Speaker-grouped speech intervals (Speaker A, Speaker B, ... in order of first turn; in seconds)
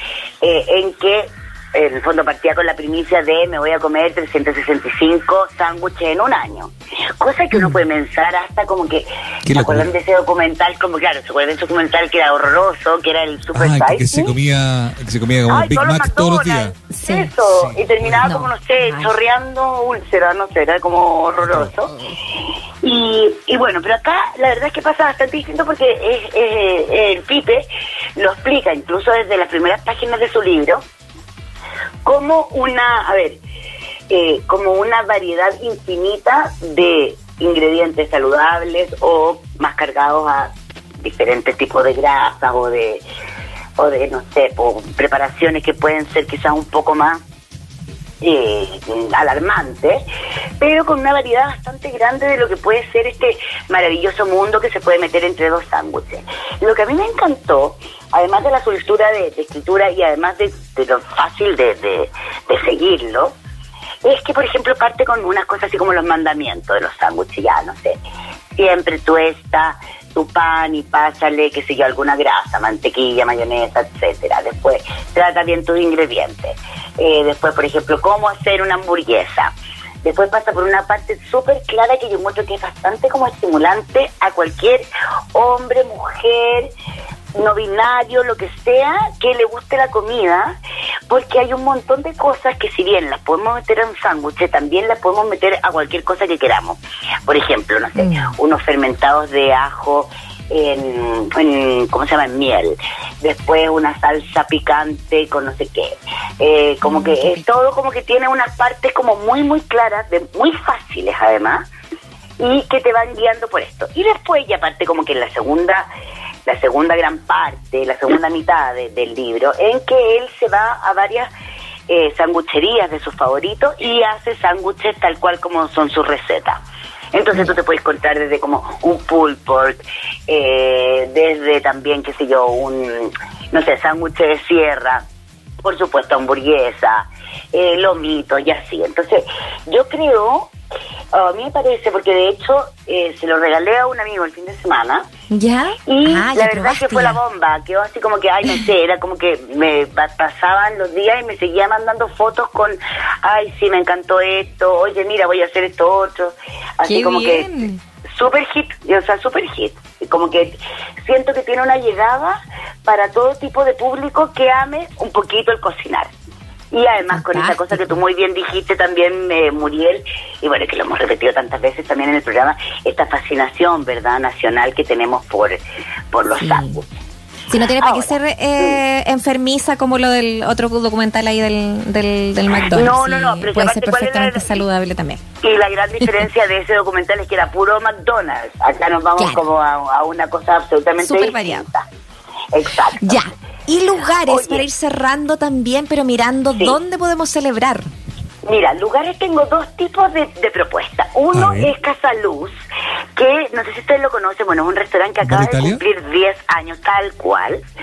Speaker A: 0.4-14.3, 15.5-21.9, 22.8-30.8, 32.0-33.4, 34.1-43.0, 43.8-47.2, 48.2-50.0, 50.6-63.3, 64.0-68.0, 68.5-86.7, 87.3-90.6, 91.1-111.7, 112.4-115.9, 116.5-121.3, 121.9-126.6, 127.1-135.0, 135.6-140.5, 141.1-145.1, 145.8-157.5, 158.1-166.1, 166.7-175.6, 176.1-176.9, 177.8-178.8, 182.7-184.6, 185.4-191.8, 192.5-193.2, 194.3-194.6, 198.4-202.5, 203.2-207.6
Speaker B: 9.4-9.9, 13.5-16.7, 17.5-18.3, 21.4-21.7, 201.3-201.7, 205.2-205.8
Speaker C: 16.9-17.4, 18.2-19.1, 21.9-22.2, 98.0-98.3, 106.8-107.4, 145.3-147.2, 156.8-157.8, 167.1-168.0, 176.3-176.8, 177.5-185.2, 189.2-189.4, 191.0-191.6, 193.0-197.9